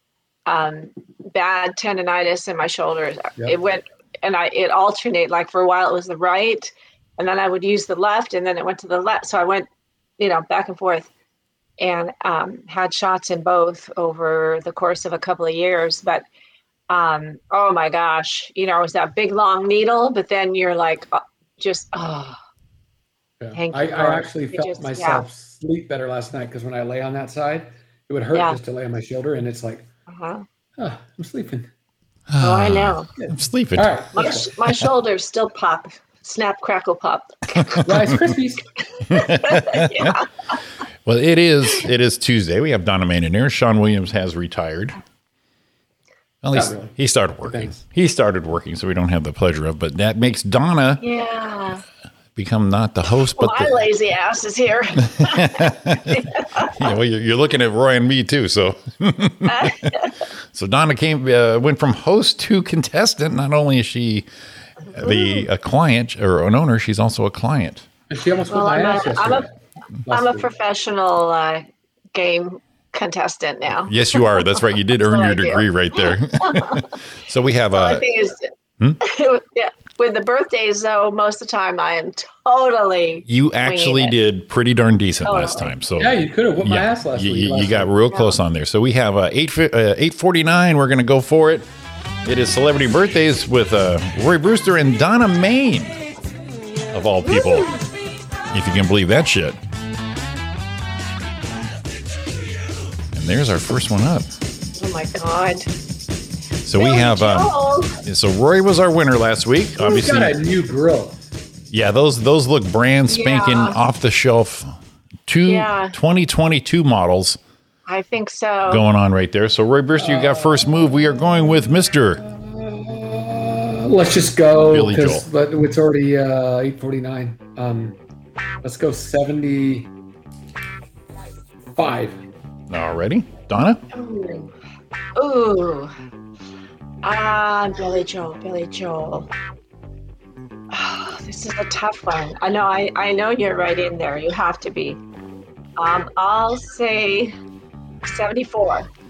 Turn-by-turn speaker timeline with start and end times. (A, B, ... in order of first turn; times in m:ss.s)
0:00.5-0:09.7 A
0:10.2-0:11.1 A
0:11.8-0:16.2 A
0:16.9-0:22.4 A
0:23.4-0:29.9 B
0:23.5-0:25.2 A
0:28.3-0:28.6 A
0:30.1-0:30.4 A
0:30.8-0:31.7 B
0:32.3-0:34.0 C
0:32.4-0:33.1 A
0:33.2-0:34.5 B
0:34.1-0:37.8 A
0:37.8-0:38.6 B
0:39.0-0:40.3 A
0:39.1-0:40.1 C
0:41.0-0:45.0 C
0:46.4-0:51.0 C
0:46.5-0:47.8 B
0:51.0-0:51.8 A
0:52.4-0:53.9 C
0:53.3-0:56.9 A
0:55.1-0:56.2 C
0:56.7-0:59.9 C
0:59.4-1:00.1 A
1:00.5-1:04.3 C
1:04.9-1:05.4 A
1:04.9-1:07.8 C
1:08.1-1:09.5 B
1:08.5-1:09.4 A
1:10.1-1:10.5 B
1:10.1-1:16.8 A
1:13.8-1:18.0 C
1:17.7-1:18.5 A
1:19.0-1:24.2 A
1:23.3-1:31.7 C
1:25.2-1:25.7 A
1:26.0-1:27.9 B
1:28.1-1:28.4 A
1:32.2-1:36.0 C
1:36.9-1:37.8 C
1:37.2-1:37.8 A
1:38.5-1:39.6 C
1:43.1-1:44.4 C
1:44.8-1:45.7 A
1:46.6-1:50.4 C
1:46.7-1:47.9 A
1:49.8-1:51.2 B
1:51.7-1:57.4 C
1:53.1-1:53.8 A
1:55.4-1:56.0 A
1:57.9-1:58.9 A
1:58.7-2:02.2 C
2:00.0-2:00.6 B
2:02.2-2:08.0 B
2:04.6-2:05.3 C
2:08.6-2:09.9 B
2:11.8-2:12.2 B
2:12.7-2:13.8 C
2:13.9-2:14.5 A
2:15.2-2:15.9 A
2:17.0-2:19.3 A
2:20.7-2:25.0 A
2:25.8-2:27.3 A
2:28.0-2:28.9 A